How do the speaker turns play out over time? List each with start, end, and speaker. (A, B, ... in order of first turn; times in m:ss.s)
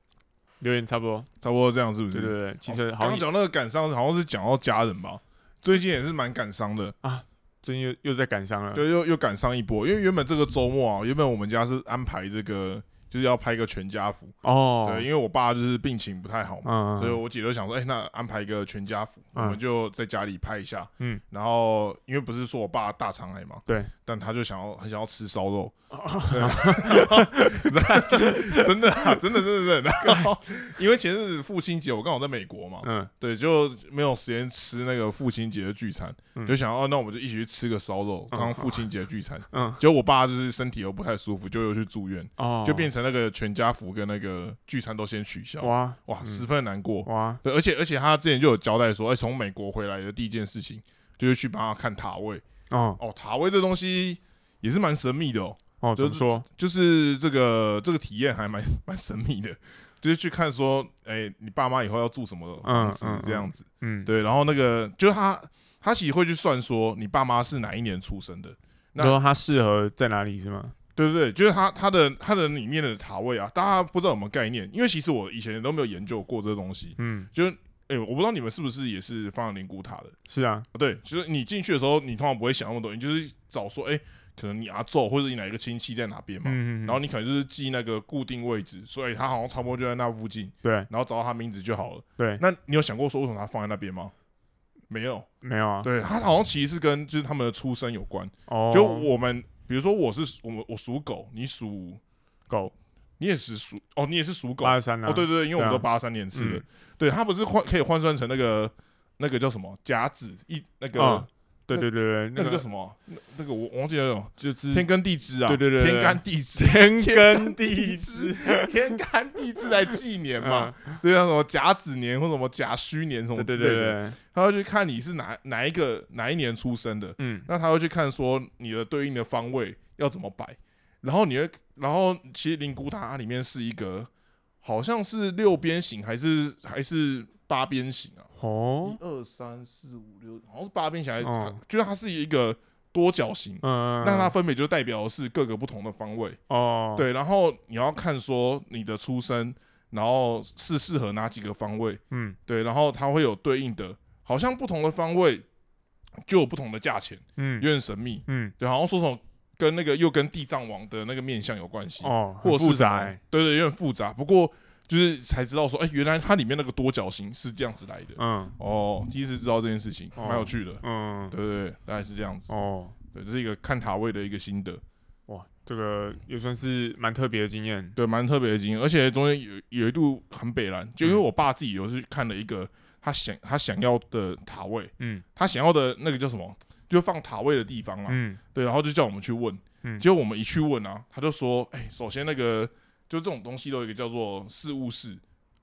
0:00.6-0:01.3 A
0:01.4-0:07.0 B
0:02.1-0:03.3 A
0:07.0-0:08.8 A
0:08.8-0:25.7 B
0:14.4-0:15.1 A
0:16.6-0:17.2 A
0:25.9-0:29.4 A
0:26.3-0:52.4 B
0:30.0-0:30.3 A
0:32.8-0:33.1 A
0:38.3-0:38.8 A
0:39.5-0:39.8 A
0:42.4-0:42.9 A
0:45.6-0:46.4 A
0:47.0-0:47.4 A
0:52.7-0:53.0 A
0:53.0-1:09.2 B
0:55.8-0:56.4 A
1:02.6-1:04.1 A
1:09.0-1:10.8 A
1:11.0-1:20.2 B
1:17.0-1:17.3 A
1:20.3-1:20.7 A
1:20.7-1:34.1 B
1:26.4-1:27.0 A
1:30.6-1:30.9 A
1:32.2-1:32.4 A
1:34.9-1:35.3 B
1:35.4-1:35.9 A
1:35.8-1:42.0 B
1:38.5-1:39.1 A
1:42.5-1:42.7 A
1:43.2-2:14.1 B
1:44.6-1:46.6 A
1:51.0-1:52.6 A
1:54.4-1:54.9 A
1:55.5-1:58.9 A
2:00.4-2:01.0 A
2:03.4-2:04.2 A
2:07.2-2:07.5 A
2:14.6-2:18.3 B
2:18.4-2:19.0 A
2:18.8-2:26.4 B
2:21.2-2:21.6 A
2:23.6-2:24.4 A
2:26.5-2:27.1 A
2:27.0-2:35.4 B
2:32.1-2:32.4 A
2:36.3-2:52.5 B
2:37.4-2:37.7 A
2:38.3-2:38.5 A
2:42.0-2:43.2 A
2:48.2-2:48.6 A
2:50.2-2:51.3 A
2:52.5-2:53.0 A
2:53.1-2:54.8 B
2:55.3-2:58.0 A
2:58.0-3:15.2 B
3:05.0-3:05.2 A
3:08.1-3:08.4 A